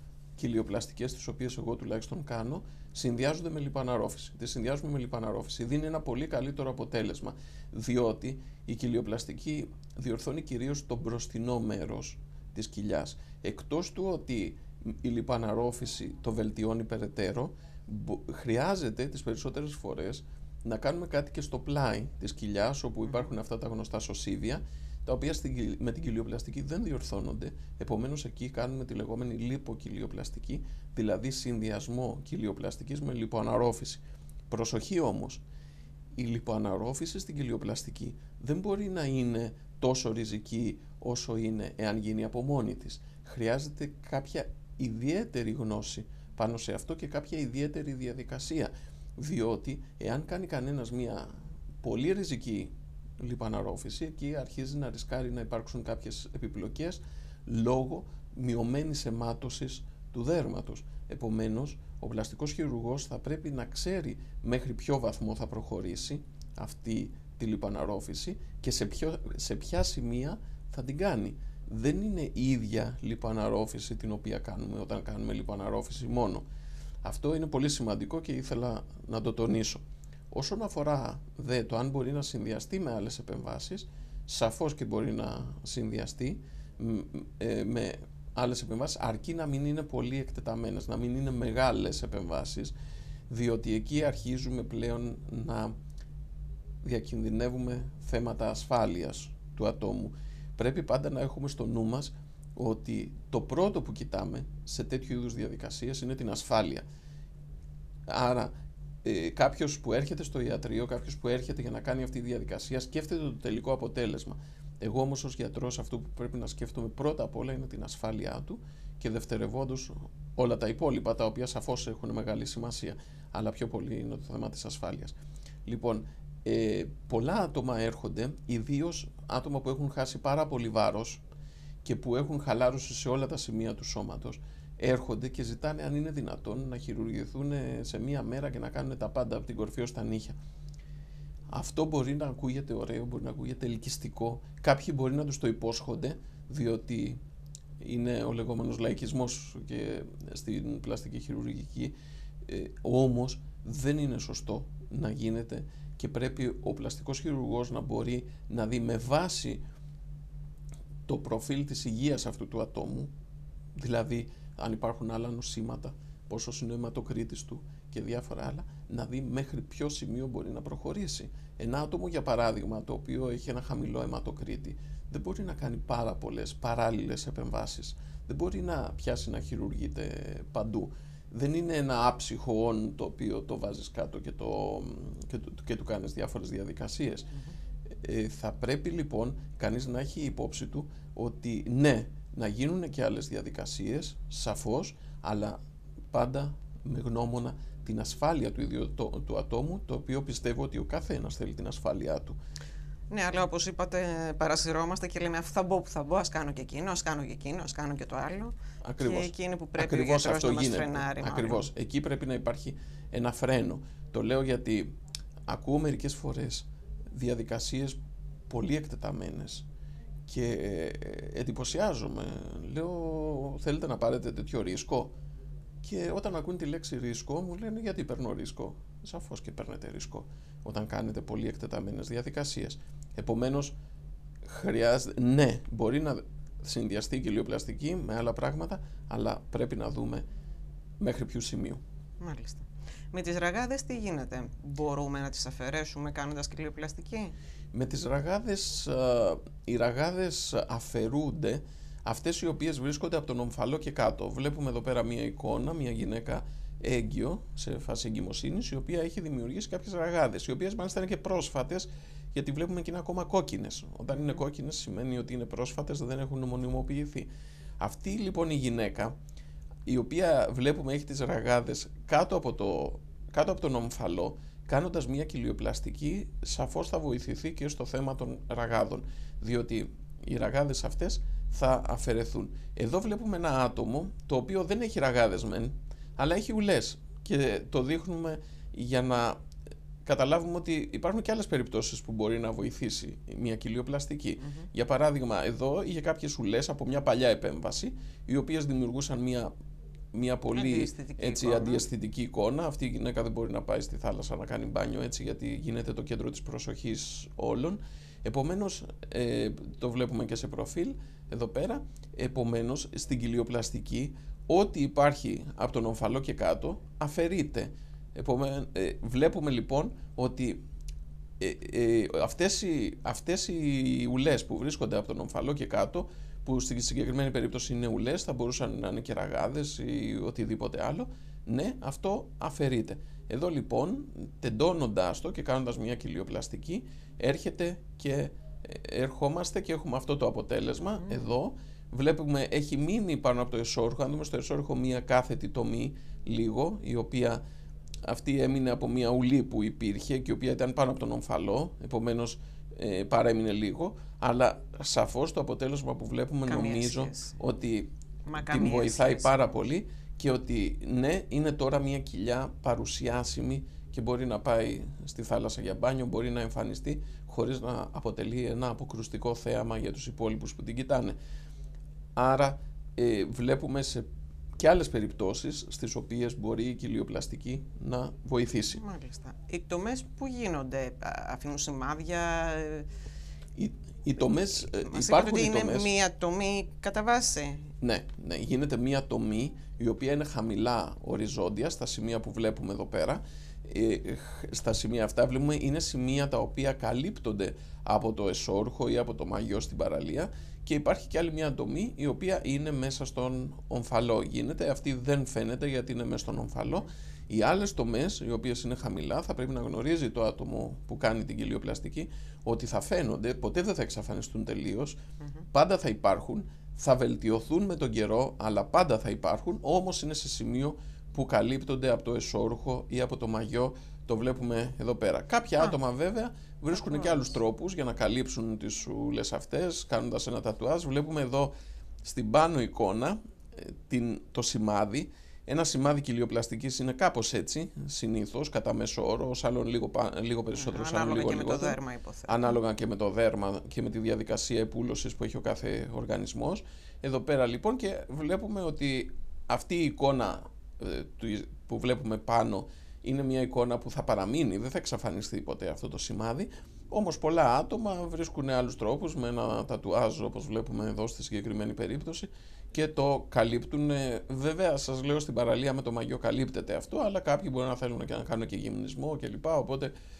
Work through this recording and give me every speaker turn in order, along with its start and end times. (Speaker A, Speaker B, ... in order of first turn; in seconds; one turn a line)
Speaker A: 0.4-35.4
Speaker A: 36.1-76.4
Speaker A: 77.0-92.7
Speaker A: 93.3-95.7
Speaker A: 96.8-106.8
Speaker A: 108.1-108.5
Speaker A: 109.0-131.2
Speaker A: 131.8-140.3
Speaker A: 141.5-147.2
Speaker A: 147.8-151.9
Speaker A: 152.4-159.6
Speaker A: 161.1-163.1
Speaker A: 163.7-187.3
Speaker A: 188.0-195.6
Speaker A: 196.1-202.3
Speaker B: 203.1-211.6
Speaker A: 208.8-214.9
Speaker A: 215.5-218.0
Speaker A: 218.5-219.6
Speaker A: 220.3-225.1
Speaker A: 225.8-233.7
Speaker A: 234.4-240.2
Speaker A: 241.0-241.8
Speaker B: 242.2-247.3
Speaker A: 247.7-269.1
Speaker A: 269.9-289.4
Speaker A: 290.0-299.5
Speaker B: 294.4-294.7
Speaker A: 300.1-320.6
Speaker B: 300.5-301.8
Speaker A: 321.4-347.4
Speaker A: 348.0-371.1
Speaker B: 356.4-357.3
Speaker B: 358.2-359.5
Speaker A: 372.1-374.1
Speaker A: 374.6-378.8
Speaker B: 378.8-382.9
Speaker A: 383.6-385.9
Speaker B: 384.7-387.7
Speaker A: 387.8-415.0
Speaker A: 415.5-431.5
Speaker B: 426.8-427.2
Speaker A: 432.0-469.9
Speaker B: 440.5-442.3